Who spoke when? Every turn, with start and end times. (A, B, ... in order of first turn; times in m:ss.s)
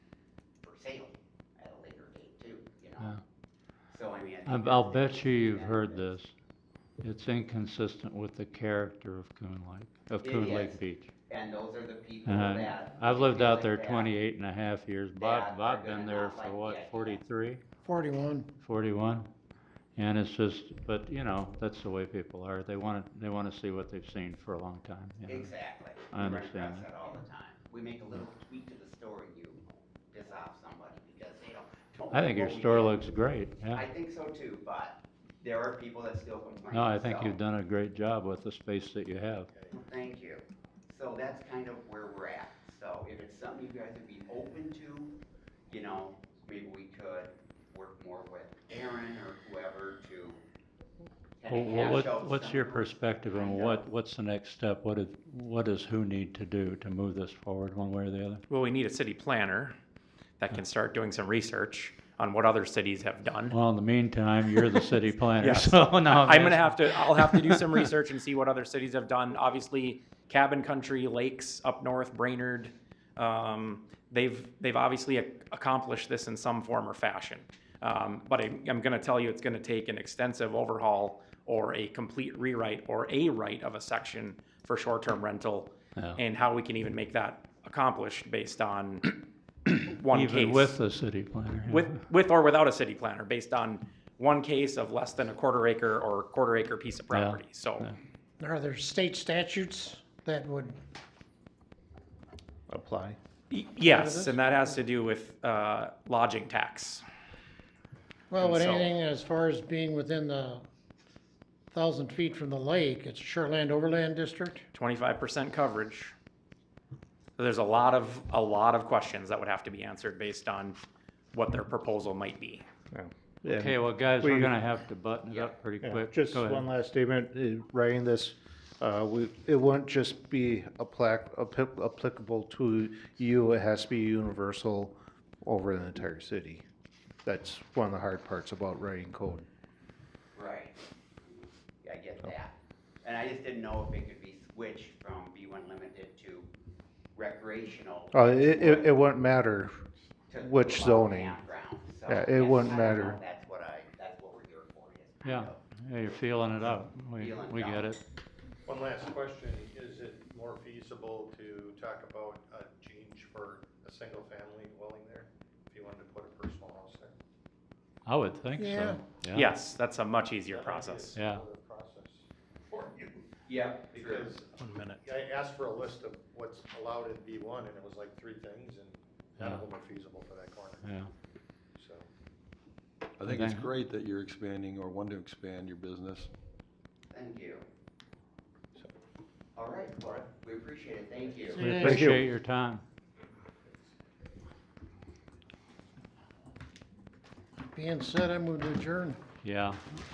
0:00.6-0:03.1 A
0:03.9-0:06.1 A
0:04.4-0:06.3 B
0:07.0-0:11.1 B
0:10.2-0:14.1 A
0:12.2-0:17.6 B
0:15.2-0:17.2 A
0:17.8-0:18.5 C
0:18.6-0:19.3 B
0:20.0-0:25.5 B
0:25.3-0:29.6 A
0:26.1-0:26.9 B
0:30.1-0:33.0 A
0:32.1-0:33.8 B
0:33.7-0:37.4 A
0:36.7-0:39.5 B
0:39.5-0:39.8 D
0:39.7-0:45.1 A
0:45.7-0:50.4 A
0:51.4-0:53.8 A
0:51.5-0:58.4 B
0:58.5-0:59.8 E
1:00.4-1:03.6 E
1:03.5-1:07.7 B
1:05.4-1:29.1 E
1:29.7-1:31.9 B
1:29.9-1:30.8 E
1:31.7-1:37.9 E
1:37.1-1:38.0 B
1:38.4-1:40.8 C
1:42.7-1:43.2 F
1:43.5-1:47.0 E
1:43.8-1:44.4 C
1:48.3-1:50.7 C
1:48.4-1:49.0 E
1:51.7-1:54.6 C
1:54.7-1:56.1 E
1:57.4-2:00.8 E
2:01.3-2:02.6 E
2:02.9-2:04.5 F
2:03.5-2:06.7 B
2:05.8-2:16.6 F
2:17.2-2:19.5 F
2:20.4-2:20.8 A
2:21.8-2:22.5 A
2:23.0-2:26.5 A
2:27.2-2:29.0 A
2:28.1-2:29.8 F
2:30.3-2:35.6 A
2:30.4-2:31.4 F
2:32.1-2:33.2 F
2:35.2-2:38.0 B
2:37.2-2:37.9 A
2:38.7-2:47.1 D
2:48.1-2:49.5 B
2:48.6-2:49.0 C
2:49.3-2:51.2 E
2:50.5-2:53.0 D
2:51.2-2:51.4 B
2:53.5-2:54.3 A
2:53.9-3:00.9 D
3:00.8-3:01.1 B
3:01.8-3:02.1 D
3:03.2-3:06.3 G
3:03.2-3:03.7 B
3:07.1-3:07.6 A
3:09.6-3:11.9 A
3:11.6-3:12.1 C
3:11.6-3:12.8 B
3:11.7-3:12.2 F
3:17.7-3:19.2 C
3:19.4-3:19.8 B